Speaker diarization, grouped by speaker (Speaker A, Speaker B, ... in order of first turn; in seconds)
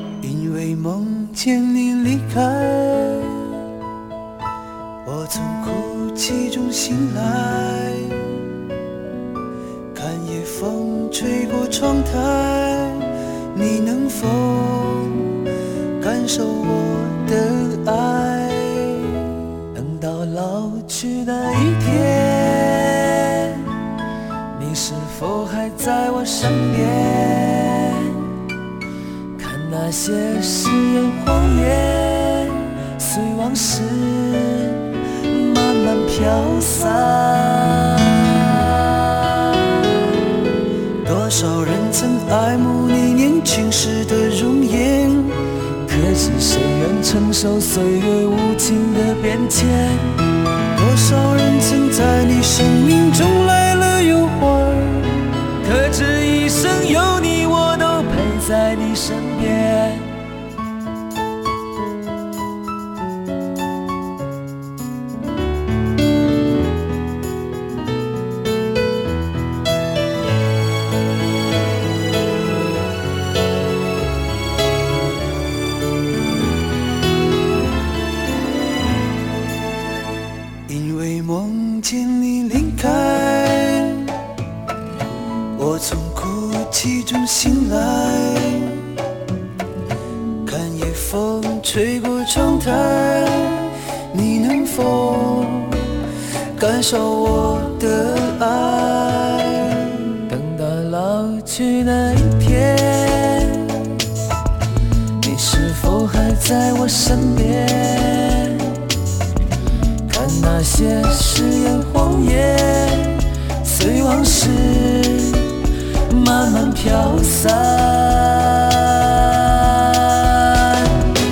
Speaker A: 0.2-3.6, 5.0-8.4, 9.9-15.4, 16.0-23.9, 24.5-28.6, 29.4-40.0, 41.0-60.1, 80.7-84.2, 85.5-89.0, 90.4-104.0, 105.2-109.0, 110.0-121.1